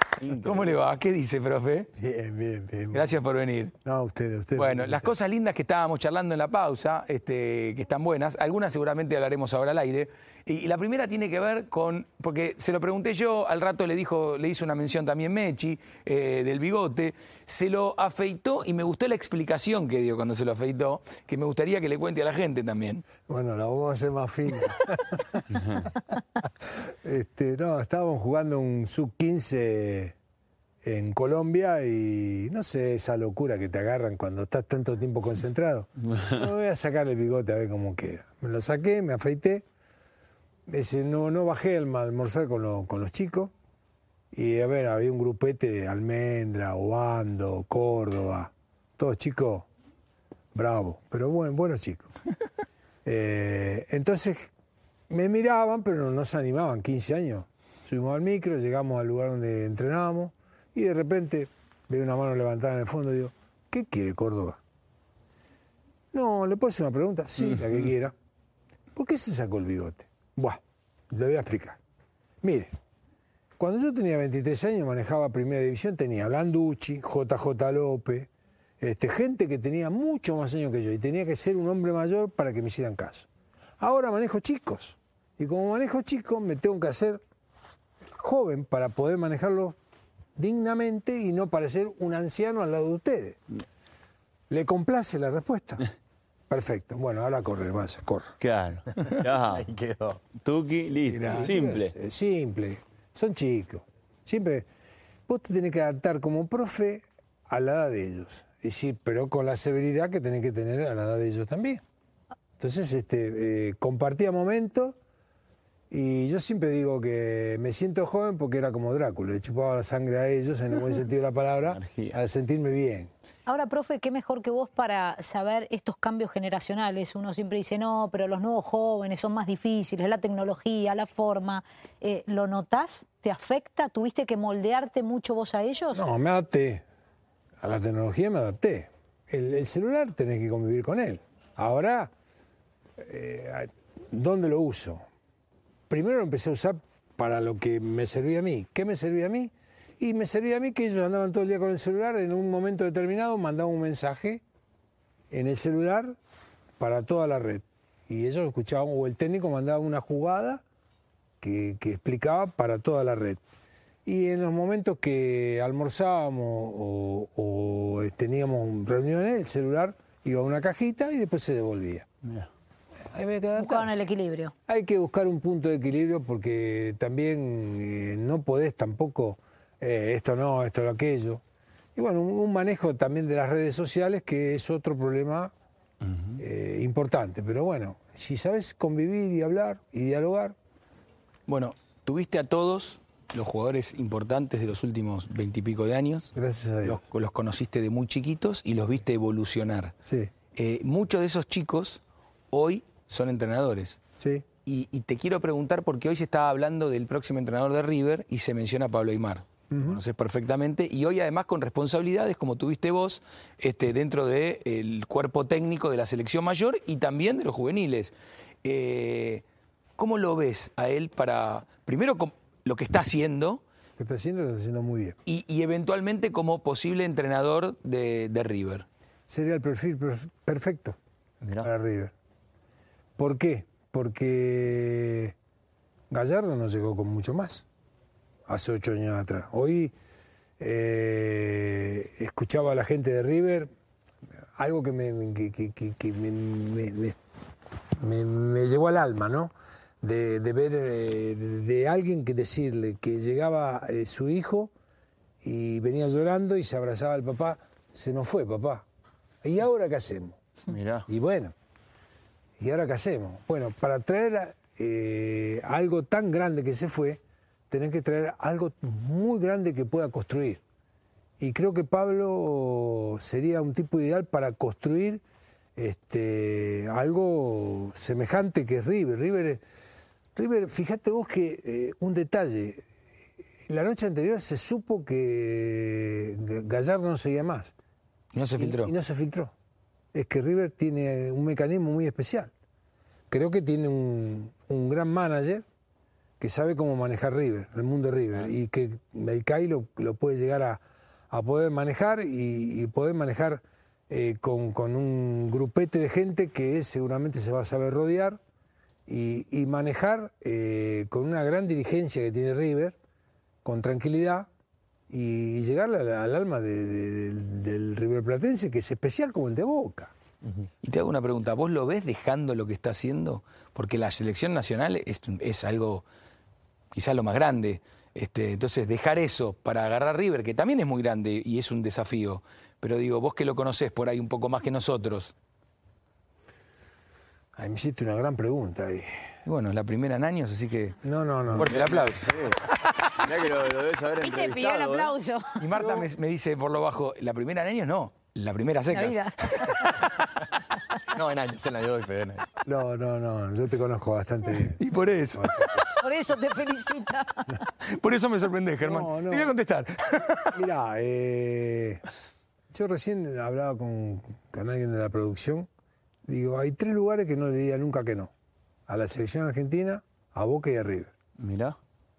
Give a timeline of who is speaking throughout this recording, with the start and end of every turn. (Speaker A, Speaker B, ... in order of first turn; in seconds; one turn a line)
Speaker A: 0.2-1.9
Speaker B: 0.2-0.5
Speaker C: 2.0-3.1
Speaker A: 2.9-3.7
Speaker C: 3.8-5.1
Speaker A: 4.5-23.0
Speaker C: 23.3-25.6
Speaker C: 26.8-30.1
Speaker C: 30.8-39.6
Speaker C: 40.7-43.5
Speaker C: 44.3-49.7
Speaker C: 50.5-52.1
Speaker C: 53.0-54.5
Speaker C: 55.1-64.6
Speaker C: 66.1-68.1
Speaker C: 68.9-71.8
Speaker C: 72.4-72.7
Speaker C: 73.6-78.3
Speaker C: 78.8-83.3
Speaker C: 83.8-87.2
Speaker C: 88.1-89.8
Speaker C: 90.3-93.4
Speaker C: 94.5-95.8
Speaker C: 96.5-98.4
Speaker B: 98.4-99.7
Speaker D: 99.4-100.2
Speaker B: 100.3-101.9
Speaker A: 101.1-101.5
Speaker C: 101.3-104.7
Speaker C: 105.3-111.8
Speaker C: 112.6-115.0
Speaker C: 115.9-123.1
Speaker B: 121.7-122.2
Speaker E: 123.5-136.0
Speaker C: 135.9-136.8
Speaker C: 137.6-142.1
Speaker C: 143.0-145.0
Speaker C: 145.9-154.4
Speaker C: 155.3-156.2
Speaker C: 156.8-160.6
Speaker C: 161.4-163.4
Speaker C: 164.0-172.1
Speaker C: 173.1-174.0
Speaker E: 173.6-174.5
Speaker C: 174.7-181.4
Speaker C: 181.9-185.5
Speaker C: 186.4-190.6
Speaker A: 191.5-196.3
Speaker C: 196.3-197.0
Speaker A: 196.8-199.9
Speaker C: 200.1-200.3
Speaker A: 200.5-204.0
Speaker C: 204.2-204.4
Speaker A: 204.6-218.1
Speaker C: 209.7-210.0
Speaker A: 218.6-219.4
Speaker A: 220.0-223.6
Speaker C: 224.0-225.2
Speaker A: 225.2-228.8
Speaker C: 229.3-231.0
Speaker B: 231.4-231.7
Speaker C: 231.6-232.1
Speaker C: 233.2-235.3
Speaker C: 236.1-237.6
Speaker C: 238.5-239.9
Speaker C: 240.6-243.7
Speaker C: 244.6-247.2
Speaker C: 247.9-254.7
Speaker C: 255.4-258.9
Speaker C: 259.4-260.4
Speaker B: 260.7-261.1
Speaker C: 261.1-261.5
Speaker C: 262.6-270.6
Speaker C: 271.4-275.2
Speaker C: 275.8-279.6
Speaker C: 280.4-282.8
Speaker C: 283.6-287.7
Speaker A: 288.3-288.9
Speaker C: 288.6-289.5
Speaker C: 290.1-292.5
Speaker C: 293.3-295.6
Speaker C: 296.4-308.4
Speaker C: 309.1-312.9
Speaker C: 313.6-314.5
Speaker C: 315.1-320.1
Speaker A: 320.8-326.0
Speaker A: 326.9-335.3
Speaker C: 337.6-339.1
Speaker A: 339.4-341.0
Speaker C: 341.0-341.8
Speaker A: 341.5-342.3
Speaker B: 341.6-345.1
Speaker E: 344.2-345.6
Speaker A: 345.6-350.2
Speaker C: 345.8-346.1
Speaker E: 348.9-350.0
Speaker D: 351.1-352.5
Speaker C: 352.6-354.8
Speaker A: 354.6-356.0
Speaker C: 355.3-355.8
Speaker E: 355.9-357.5
Speaker A: 357.8-360.6
Speaker C: 358.8-359.5
Speaker C: 360.5-362.0
Speaker C: 362.7-365.7
Speaker C: 366.2-368.3
Speaker C: 368.9-371.1
Speaker B: 371.4-371.8